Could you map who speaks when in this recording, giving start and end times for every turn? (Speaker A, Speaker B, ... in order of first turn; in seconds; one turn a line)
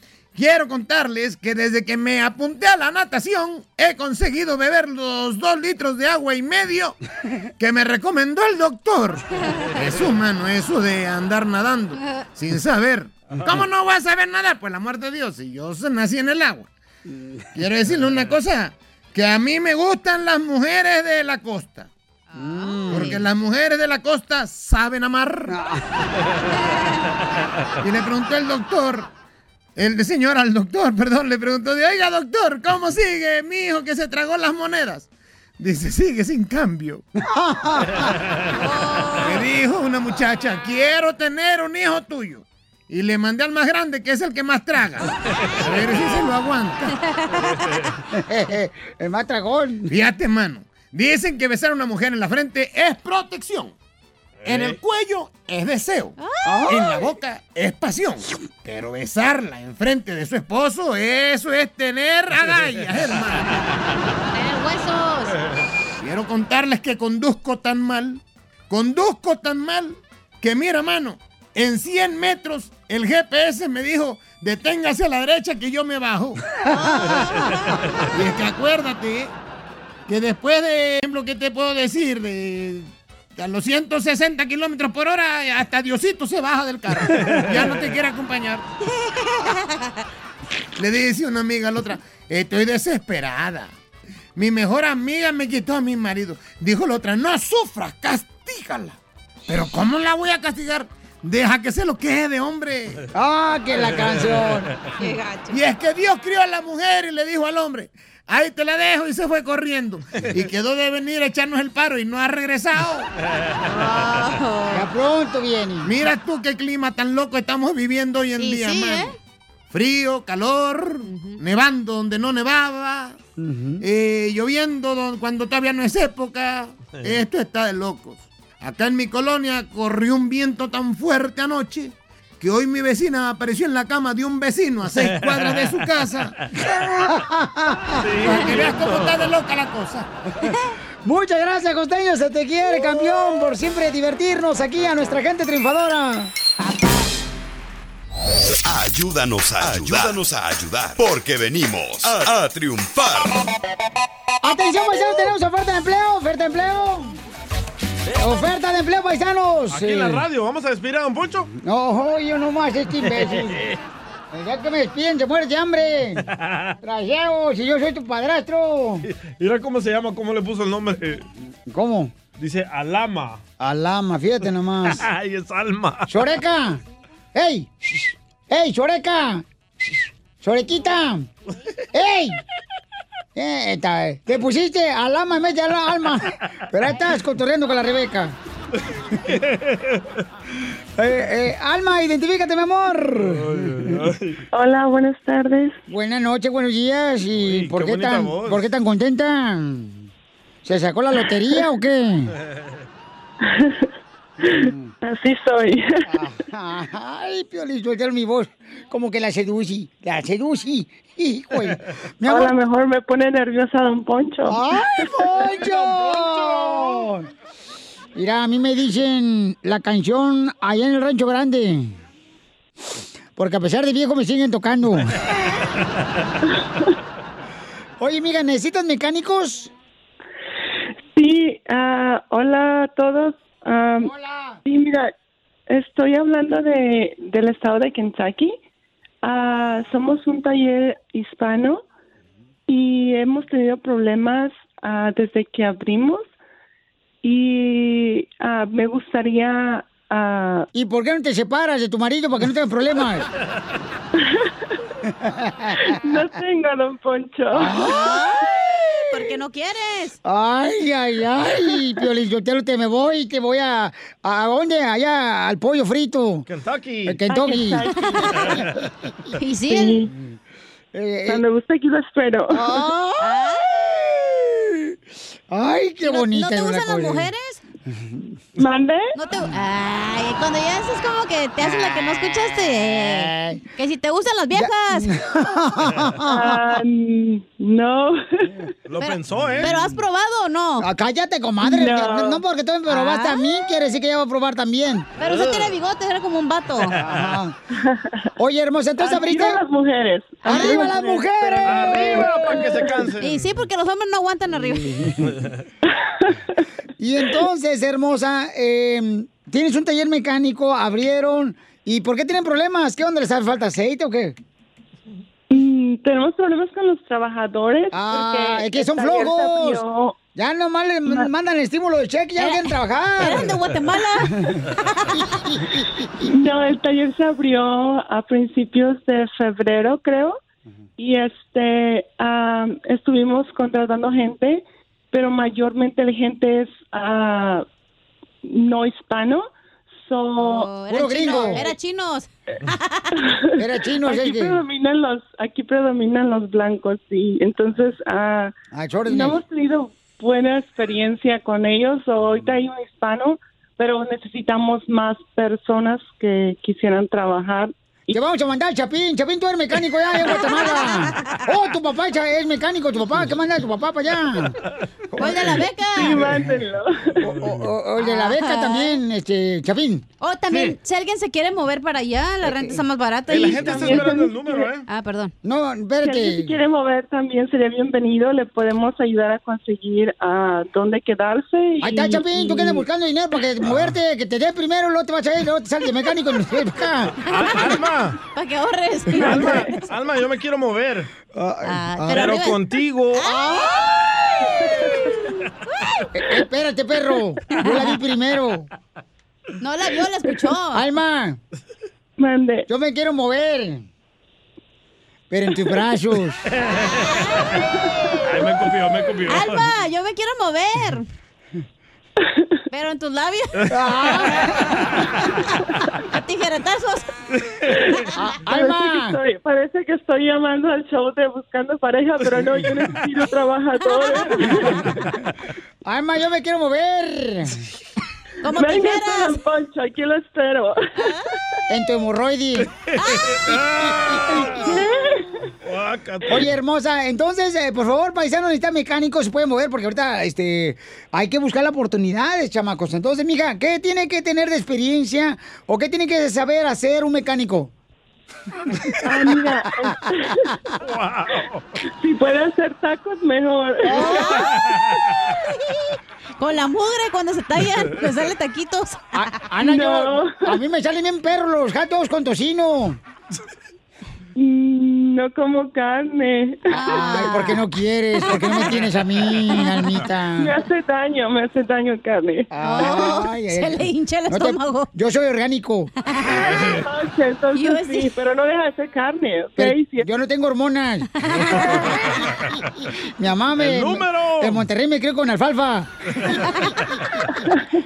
Speaker A: 0.3-7.0
Speaker A: 7.6-16.7
Speaker B: 13.3-13.7
Speaker C: 17.1-17.4
Speaker A: 17.6-21.9
Speaker D: 22.3-23.2
Speaker C: 22.4-23.2
Speaker A: 22.9-25.6
Speaker C: 25.5-25.8
Speaker A: 27.8-29.1
Speaker A: 29.8-37.0
Speaker C: 37.2-38.1
Speaker D: 38.6-39.4
Speaker A: 39.2-45.1
Speaker B: 45.4-46.2
Speaker A: 45.6-46.9
Speaker D: 47.1-47.7
Speaker B: 47.3-48.0
Speaker C: 48.1-49.9
Speaker A: 49.9-53.7
Speaker B: 54.4-54.8
Speaker A: 54.5-56.1
Speaker D: 56.2-56.8
Speaker C: 56.5-57.0
Speaker A: 56.7-63.5
Speaker D: 64.3-65.3
Speaker A: 66.0-76.4
Speaker C: 76.6-77.4
Speaker D: 76.7-77.8
Speaker A: 78.1-79.3
Speaker A: 80.1-88.7
Speaker B: 87.0-87.8
Speaker D: 89.0-89.8
Speaker A: 90.8-93.7
Speaker A: 94.4-103.0
Speaker C: 103.1-104.7
Speaker B: 103.8-104.9
Speaker D: 105.0-105.6
Speaker A: 105.5-113.1
Speaker D: 113.7-114.9
Speaker C: 114.7-115.9
Speaker A: 115.8-119.1
Speaker D: 118.4-119.1
Speaker A: 119.7-123.2
Speaker D: 121.1-121.4
Speaker C: 123.4-123.8
Speaker A: 123.8-136.3
Speaker B: 126.9-127.2
Speaker B: 134.9-135.9
Speaker C: 136.6-138.1
Speaker B: 136.6-137.0
Speaker B: 137.9-139.3
Speaker A: 138.2-140.1
Speaker C: 141.1-146.3
Speaker E: 148.7-153.4
Speaker C: 154.4-157.2
Speaker C: 158.1-160.2
Speaker B: 159.7-161.5
Speaker C: 161.5-163.7
Speaker B: 163.0-163.8
Speaker C: 164.3-166.3
Speaker B: 166.3-166.7
Speaker C: 166.8-169.1
Speaker B: 169.0-171.3
Speaker C: 171.7-172.1
Speaker B: 172.3-173.4
Speaker C: 173.6-175.1
Speaker B: 174.8-176.2
Speaker C: 176.1-176.8
Speaker C: 177.3-181.3
Speaker C: 181.9-182.4
Speaker C: 183.3-188.3
Speaker B: 189.2-190.2
Speaker C: 191.0-193.9
Speaker B: 193.2-194.4
Speaker F: 194.5-195.8
Speaker C: 195.9-200.1
Speaker B: 197.3-198.7
Speaker C: 200.7-202.3
Speaker F: 203.4-203.9
Speaker F: 204.4-206.2
Speaker C: 204.4-204.9
Speaker C: 206.1-212.6
Speaker F: 212.3-215.1
Speaker C: 214.5-217.3
Speaker C: 218.2-221.9
Speaker C: 223.4-225.2
Speaker C: 228.0-229.7
Speaker F: 231.2-234.1
Speaker C: 234.0-234.6
Speaker F: 234.7-235.1
Speaker F: 235.7-238.6
Speaker F: 239.2-241.8
Speaker F: 242.7-246.3
Speaker F: 247.2-250.7
Speaker C: 250.7-253.3
Speaker F: 254.2-254.5
Speaker C: 255.2-256.0
Speaker F: 255.8-257.9
Speaker C: 257.5-259.0
Speaker D: 257.7-258.5
Speaker D: 259.1-260.2
Speaker C: 260.2-266.5
Speaker B: 266.5-267.2
Speaker C: 267.1-267.9
Speaker F: 267.3-268.6
Speaker D: 267.9-268.6
Speaker B: 268.4-268.7
Speaker D: 269.4-270.0
Speaker F: 269.7-270.1
Speaker C: 270.9-271.4
Speaker F: 271.3-272.8
Speaker C: 272.5-275.0
Speaker D: 273.2-273.7
Speaker C: 275.5-277.3
Speaker D: 276.0-277.6
Speaker C: 277.9-278.3
Speaker F: 278.6-279.1
Speaker D: 279.1-285.1
Speaker C: 282.8-283.6
Speaker C: 284.5-286.8
Speaker F: 286.3-288.7
Speaker B: 288.9-289.8
Speaker D: 289.0-290.9
Speaker C: 290.8-295.1
Speaker F: 291.6-292.4
Speaker D: 292.9-293.5
Speaker D: 295.2-296.9
Speaker B: 295.2-295.8
Speaker B: 296.9-297.4
Speaker C: 297.0-297.6
Speaker F: 297.7-298.3
Speaker C: 298.4-299.6
Speaker F: 299.0-303.1
Speaker C: 300.4-302.8
Speaker D: 300.5-300.9
Speaker B: 301.6-303.5
Speaker D: 303.2-305.1
Speaker C: 304.6-305.3
Speaker B: 305.3-305.5
Speaker F: 306.0-306.6
Speaker C: 307.0-314.4
Speaker F: 315.5-320.2
Speaker C: 317.9-319.8
Speaker C: 320.4-323.6
Speaker D: 322.4-325.2
Speaker C: 325.5-325.8
Speaker F: 326.3-330.4
Speaker F: 331.0-337.7
Speaker F: 338.4-340.7
Speaker D: 340.4-343.1
Speaker C: 340.9-341.7
Speaker F: 341.2-341.7
Speaker F: 343.2-348.5
Speaker C: 343.6-344.6
Speaker C: 348.7-349.4
Speaker F: 349.1-358.2
Speaker C: 358.1-364.6
Speaker D: 360.2-361.4
Speaker D: 365.2-366.3
Speaker C: 365.2-366.4
Speaker F: 365.9-367.3
Speaker C: 367.2-370.1
Speaker B: 367.3-367.7
Speaker D: 368.0-369.0
Speaker D: 370.2-374.2
Speaker C: 372.4-372.8
Speaker B: 373.3-374.9
Speaker F: 373.6-374.6
Speaker C: 373.6-374.0
Speaker D: 374.9-375.3
Speaker C: 375.4-376.6
Speaker F: 376.0-382.9
Speaker C: 381.8-387.2
Speaker B: 383.6-384.0
Speaker B: 387.3-388.2
Speaker D: 387.3-389.9
Speaker B: 389.2-391.1
Speaker F: 389.2-389.8
Speaker C: 391.4-391.8
Speaker D: 391.7-392.6
Speaker B: 392.0-393.3
Speaker D: 393.2-394.0
Speaker C: 393.2-393.9
Speaker D: 395.7-396.1
Speaker C: 396.1-398.7
Speaker D: 397.5-398.0
Speaker D: 399.6-400.8
Speaker C: 400.7-401.4
Speaker F: 402.2-402.7
Speaker C: 402.7-403.9
Speaker C: 405.3-406.4
Speaker B: 406.5-407.2
Speaker F: 407.8-408.3
Speaker B: 408.2-409.7
Speaker D: 409.3-411.1
Speaker F: 412.2-412.5
Speaker D: 412.7-414.3
Speaker B: 413.6-414.4
Speaker C: 413.7-414.7
Speaker D: 416.1-417.1
Speaker B: 417.3-418.1
Speaker F: 417.7-425.1
Speaker C: 418.1-419.2
Speaker B: 422.5-422.9
Speaker D: 423.8-424.9
Speaker C: 425.9-427.6
Speaker D: 428.4-429.4
Speaker F: 428.5-431.1
Speaker D: 431.0-431.2
Speaker C: 431.7-432.7
Speaker B: 432.6-434.9
Speaker F: 434.3-435.3
Speaker B: 435.6-436.5
Speaker C: 436.3-447.7
Speaker F: 449.0-450.5
Speaker C: 449.8-450.1
Speaker B: 450.8-451.8
Speaker F: 452.0-454.4
Speaker C: 453.9-454.4
Speaker D: 453.9-454.5
Speaker B: 454.5-455.3
Speaker D: 456.4-459.0
Speaker C: 459.1-463.0
Speaker F: 459.6-460.6
Speaker F: 464.4-466.9
Speaker D: 466.7-467.6
Speaker C: 466.7-470.5
Speaker D: 468.2-468.7
Speaker D: 469.5-469.9
Speaker F: 470.3-473.1
Speaker C: 472.5-475.9
Speaker D: 472.6-474.9
Speaker D: 476.1-476.4
Speaker B: 476.3-476.9
Speaker F: 476.4-480.1
Speaker D: 477.6-478.1
Speaker C: 479.6-481.9
Speaker D: 481.2-481.7
Speaker B: 481.6-482.6
Speaker C: 483.0-485.9
Speaker B: 483.6-484.7
Speaker F: 487.5-487.8